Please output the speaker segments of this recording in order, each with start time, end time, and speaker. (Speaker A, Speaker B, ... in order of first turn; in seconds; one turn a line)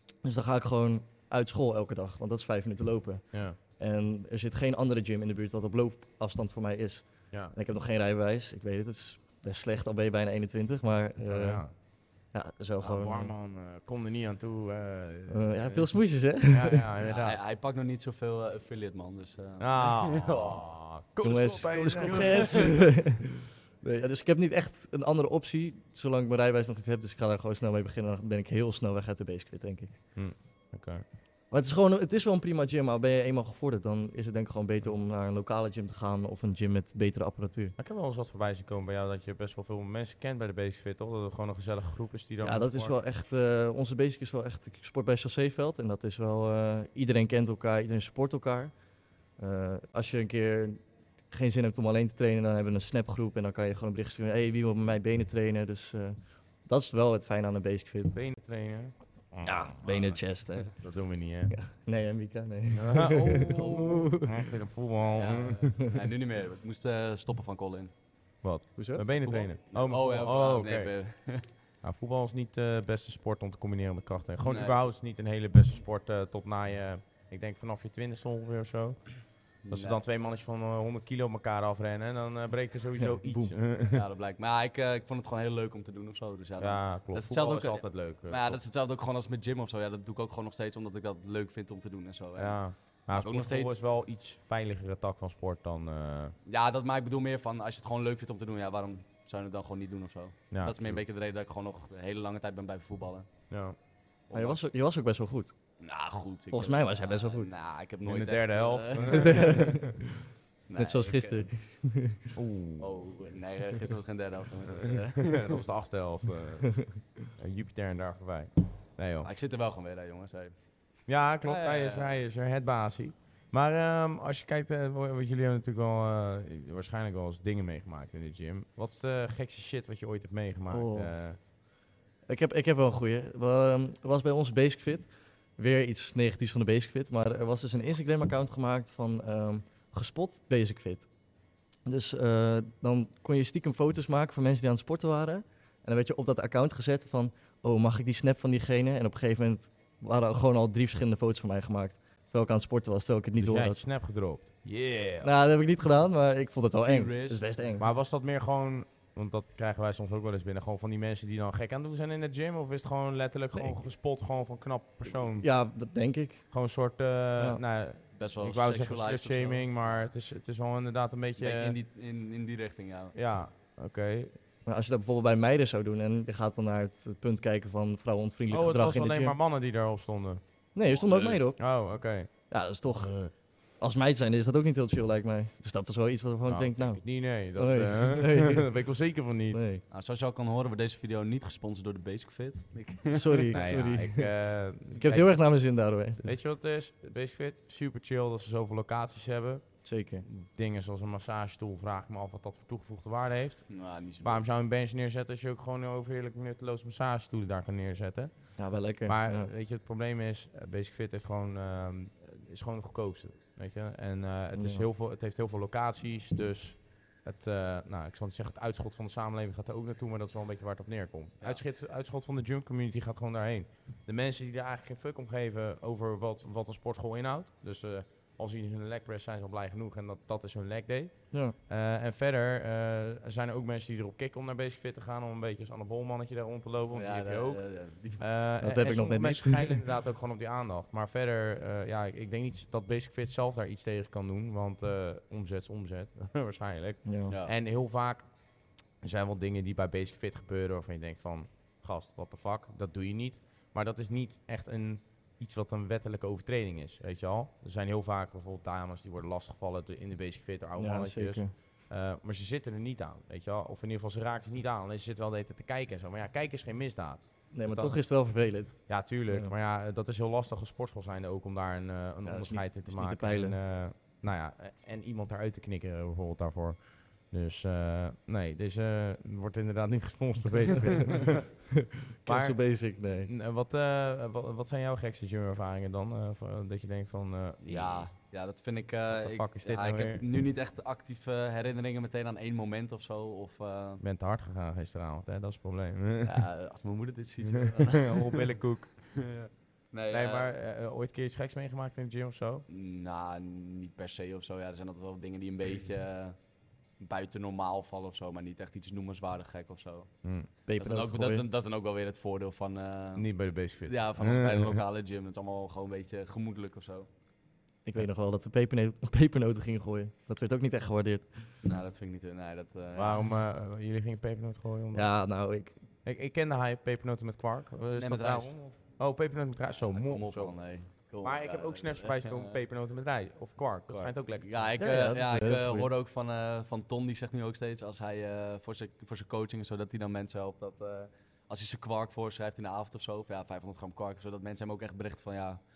Speaker A: 0.2-11.7
Speaker B: 3.3-3.6
Speaker B: 11.3-11.7
Speaker A: 12.3-13.3
Speaker B: 12.8-15.9
Speaker A: 15.3-16.9
Speaker B: 16.5-17.4
Speaker C: 17.0-20.6
Speaker B: 19.6-23.0
Speaker A: 21.2-30.0
Speaker C: 22.1-22.7
Speaker B: 30.1-31.0
Speaker A: 31.5-37.8
Speaker B: 37.8-42.9
Speaker A: 42.4-48.7
Speaker A: 49.4-58.2
Speaker B: 58.1-61.5
Speaker A: 59.4-60.8
Speaker A: 61.5-64.3
Speaker B: 62.7-65.8
Speaker C: 63.2-64.1
Speaker C: 65.1-67.9
Speaker B: 68.4-70.9
Speaker A: 68.8-69.0
Speaker C: 69.2-71.5
Speaker B: 71.8-84.0
Speaker C: 74.4-74.8
Speaker C: 79.6-80.0
Speaker A: 83.0-83.5
Speaker C: 83.9-93.8
Speaker B: 86.6-88.6
Speaker B: 92.4-96.3
Speaker C: 96.5-103.3
Speaker B: 100.5-101.0
Speaker B: 103.5-103.8
Speaker C: 104.3-104.7
Speaker A: 104.3-105.5
Speaker C: 105.8-109.8
Speaker A: 106.5-107.5
Speaker B: 108.0-109.9
Speaker A: 109.1-110.2
Speaker C: 110.7-111.5
Speaker A: 110.8-112.3
Speaker B: 112.3-113.0
Speaker C: 112.8-115.6
Speaker B: 114.7-119.3
Speaker C: 119.2-120.5
Speaker B: 121.1-131.4
Speaker C: 121.4-122.2
Speaker A: 130.7-131.1
Speaker A: 132.3-141.1
Speaker A: 141.8-153.8
Speaker B: 153.4-155.3
Speaker A: 155.2-157.9
Speaker C: 156.8-157.4
Speaker B: 157.8-165.5
Speaker A: 165.4-166.5
Speaker B: 166.5-171.8
Speaker C: 168.2-170.0
Speaker C: 171.4-173.1
Speaker B: 173.1-174.4
Speaker A: 174.7-179.3
Speaker B: 178.5-180.4
Speaker A: 180.7-181.7
Speaker C: 180.9-181.4
Speaker B: 181.6-182.3
Speaker A: 182.5-188.7
Speaker B: 183.0-183.3
Speaker B: 186.4-189.6
Speaker A: 189.5-189.8
Speaker C: 189.9-193.6
Speaker A: 193.1-194.3
Speaker B: 193.5-195.3
Speaker A: 194.9-196.3
Speaker B: 196.2-237.6
Speaker A: 199.8-200.2
Speaker C: 203.7-204.4
Speaker A: 208.6-209.5
Speaker A: 214.5-214.8
Speaker C: 236.9-238.2
Speaker B: 238.2-248.3
Speaker A: 238.6-239.8
Speaker A: 247.1-247.3
Speaker C: 247.3-247.5
Speaker B: 249.0-268.0
Speaker A: 260.8-261.5
Speaker A: 267.5-269.5
Speaker B: 268.8-281.6
Speaker A: 272.2-273.6
Speaker A: 282.2-283.3
Speaker B: 282.2-288.1
Speaker C: 287.6-294.0
Speaker B: 289.1-290.2
Speaker B: 294.0-296.5
Speaker C: 296.2-300.5
Speaker B: 297.4-299.2
Speaker B: 300.1-302.6
Speaker C: 302.7-306.4
Speaker C: 307.0-310.1
Speaker B: 310.2-310.5
Speaker A: 310.6-311.4
Speaker C: 310.6-317.1
Speaker B: 313.1-314.8
Speaker A: 317.8-321.6
Speaker C: 321.6-323.3
Speaker B: 322.9-325.1
Speaker A: 324.9-325.8
Speaker B: 326.0-330.6
Speaker C: 327.9-328.7
Speaker C: 329.9-332.6
Speaker B: 331.2-334.8
Speaker C: 333.9-345.6
Speaker A: 334.8-335.9